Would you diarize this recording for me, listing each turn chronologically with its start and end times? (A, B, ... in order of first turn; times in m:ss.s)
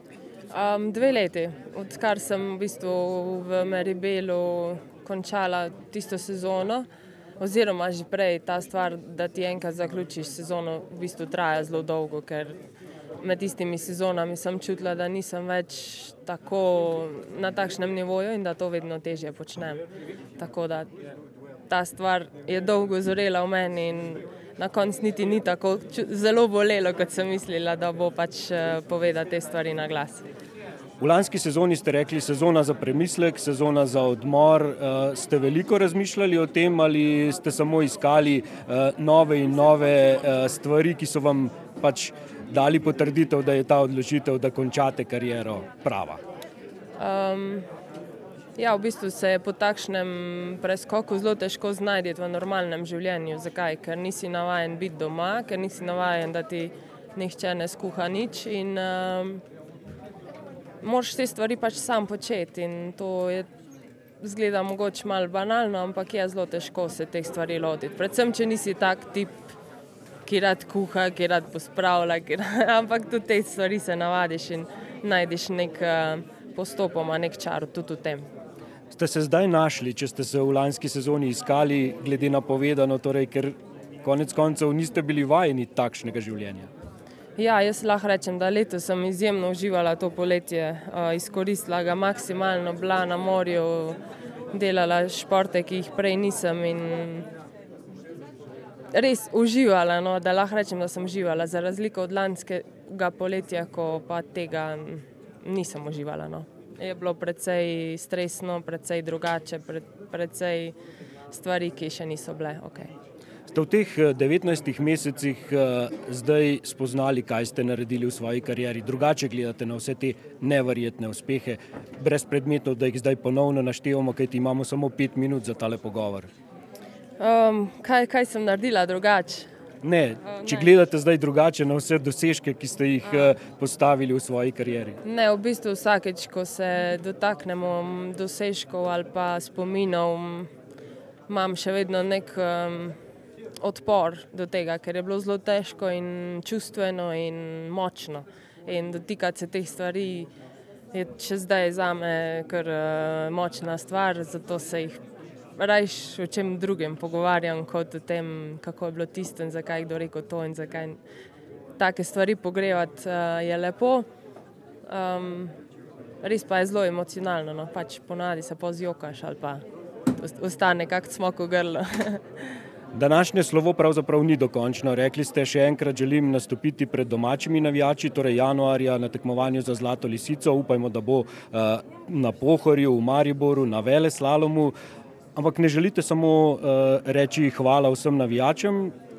0:00.5-0:06.9 A
0:07.4-0:12.6 A
0:13.2-0:19.8 A
0:20.4-0:20.9 A
0:21.7-0:30.2 A
0:31.0-0:46.2 B
0:47.0-0:47.7 A
0:48.6-0:59.4 A
1:00.8-1:03.5 A
1:04.2-1:09.5 A
1:10.3-1:18.3 A
1:18.9-1:26.7 B
1:27.4-1:34.0 A
1:34.5-1:37.3 A
1:38.9-1:50.8 A
1:51.3-1:52.9 A
1:53.5-2:06.3 B
2:07.2-2:09.5 A
2:09.8-2:15.0 B
2:10.3-2:10.7 A
2:15.0-2:20.5 A
2:21.3-2:23.0 A
2:23.6-2:30.3 A
2:30.9-2:35.0 A
2:35.6-2:41.0 A
2:41.8-2:44.0 A
2:44.9-2:45.5 A
2:46.2-2:49.6 A
2:50.2-2:52.6 A
2:52.9-3:04.7 B
3:05.4-3:08.9 B